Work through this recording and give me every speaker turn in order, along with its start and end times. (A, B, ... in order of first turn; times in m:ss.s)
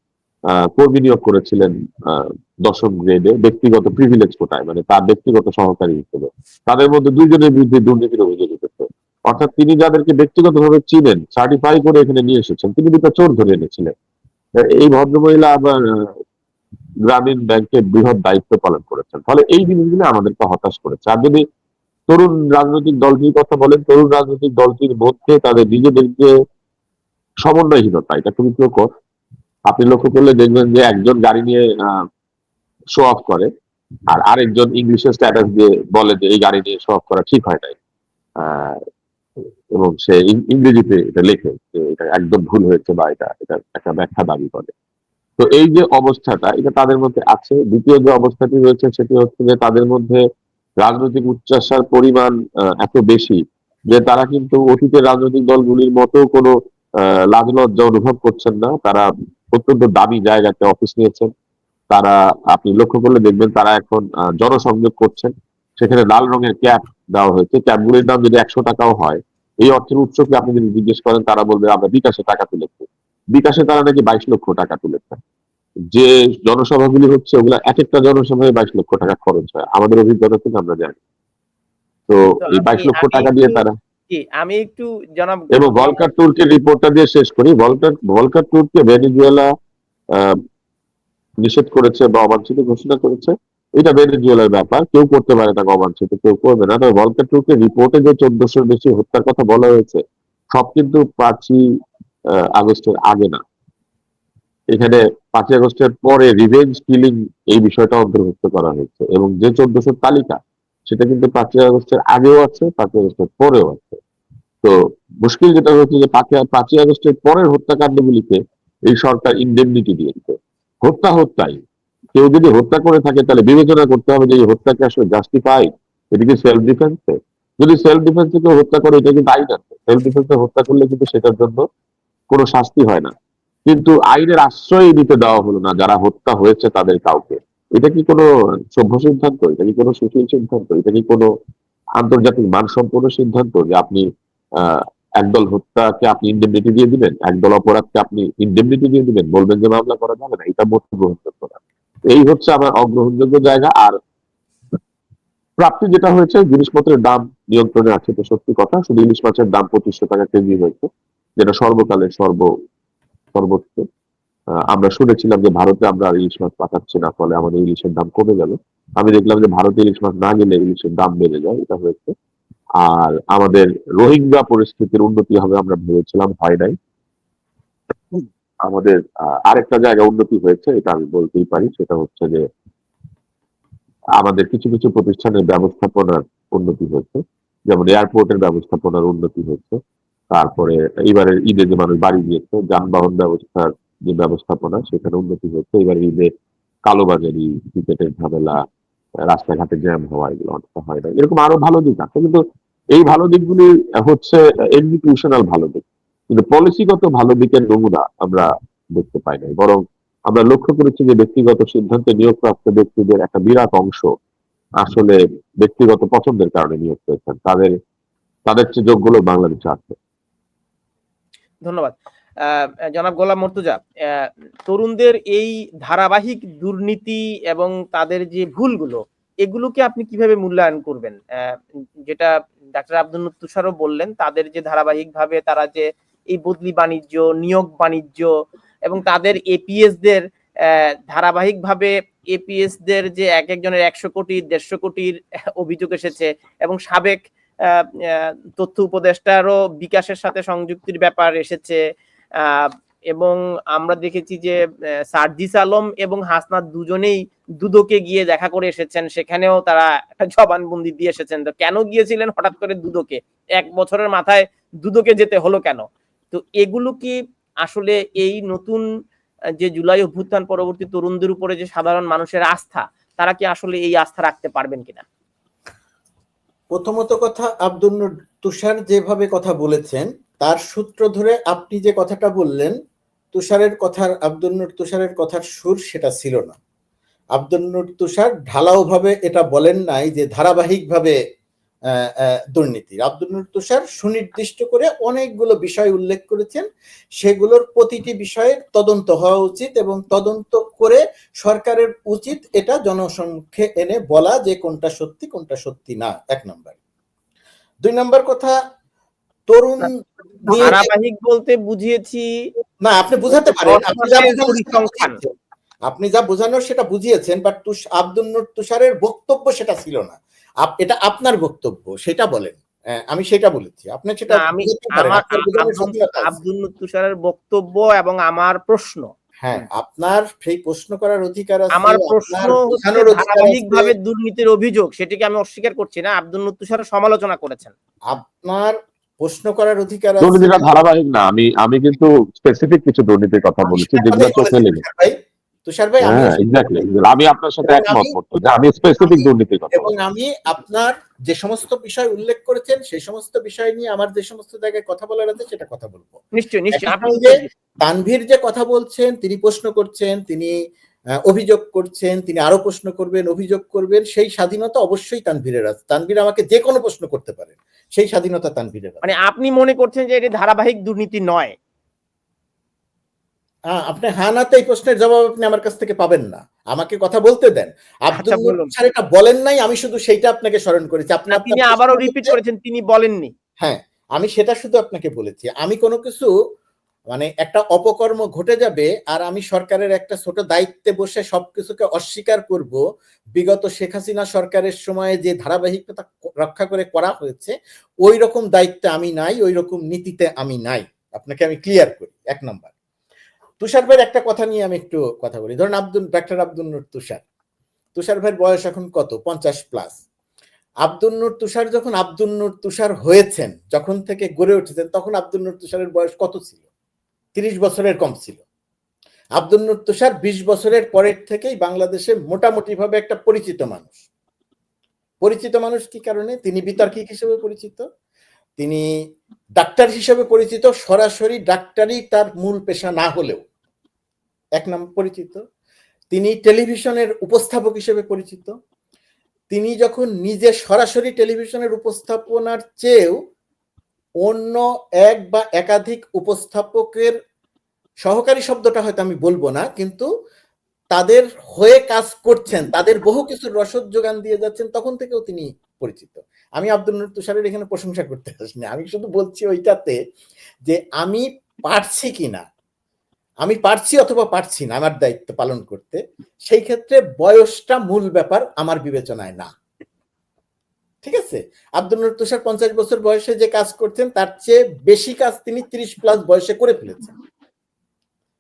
0:00.6-0:13.9 A
0:14.6-0:16.1 A
0:17.1-0:21.4 A
0:22.1-0:26.3 A
0:27.4-0:28.9 A
0:29.7-0:32.0 A
0:33.0-0:33.5 A
0:34.1-0:37.8 A
0:38.4-0:38.8 A
0:39.7-0:44.7 A
0:45.4-0:50.2 A
0:50.8-0:53.4 A
0:53.9-0:56.5 A
0:57.3-1:01.3 A
1:01.9-1:15.2 A
1:15.9-1:21.0 A
1:22.1-1:23.8 A
1:22.4-1:26.1 B
1:25.5-1:29.5 A
1:31.4-1:40.0 A
1:40.5-1:41.6 A
1:42.5-1:43.4 A
1:44.7-1:54.0 A
1:54.6-2:01.6 A
2:02.2-2:11.6 A
2:12.3-2:13.1 A
2:13.7-2:21.3 A
2:22.0-2:24.0 A
2:24.6-2:34.0 A
2:35.6-2:42.5 A
2:43.3-2:43.8 A
2:44.7-2:52.1 A
2:52.8-2:56.8 A
2:58.1-3:02.4 A
3:04.2-3:09.8 A
3:10.3-3:16.3 A
3:16.9-3:18.6 A
3:19.3-3:22.4 A
3:22.9-3:34.1 A
3:34.8-3:37.7 A
3:38.5-3:40.0 A
3:41.6-3:58.3 B
3:58.9-4:11.8 B
4:12.4-4:14.6 B
4:15.1-4:28.8 B
4:29.6-4:35.0 B
4:36.7-4:42.8 C
4:43.3-4:46.6 C
4:47.4-4:51.2 C
4:52.0-4:56.6 C
4:57.2-5:06.8 C
5:07.8-5:08.6 C
5:09.5-5:10.9 C
5:10.5-5:12.3 B
5:12.8-5:15.3 C
5:13.4-5:15.2 B
5:15.9-5:26.4 C
5:24.3-5:29.7 B
5:29.4-5:33.9 C
5:31.8-5:37.7 B
5:38.1-5:40.8 C
5:40.2-5:44.8 A
5:43.6-5:45.1 C
5:45.7-5:46.9 C
5:46.0-5:49.9 A
5:47.6-5:48.2 C
5:49.0-5:56.2 C
5:56.3-5:57.5 B
5:56.7-6:00.5 C
6:01.3-6:09.1 C
6:09.0-6:11.5 B
6:13.7-6:22.4 C
6:18.1-6:18.7 B
6:21.3-6:23.3 B
6:23.6-6:26.3 C
6:27.1-6:32.8 C
6:33.4-6:42.7 C
6:43.6-6:47.2 C
6:48.0-6:50.0 C
6:50.8-6:56.6 C
6:57.4-6:58.4 C
6:59.4-7:04.0 C
7:05.2-7:07.8 C
7:08.6-7:08.8 C
7:09.6-7:13.4 C
7:14.6-7:15.4 C
7:16.1-7:18.5 C
7:19.5-7:23.2 C
7:24.2-7:27.1 C
7:28.0-7:30.1 C
7:30.9-7:40.0 C
7:40.7-7:42.4 C
7:43.4-7:49.5 C
7:51.0-7:57.1 C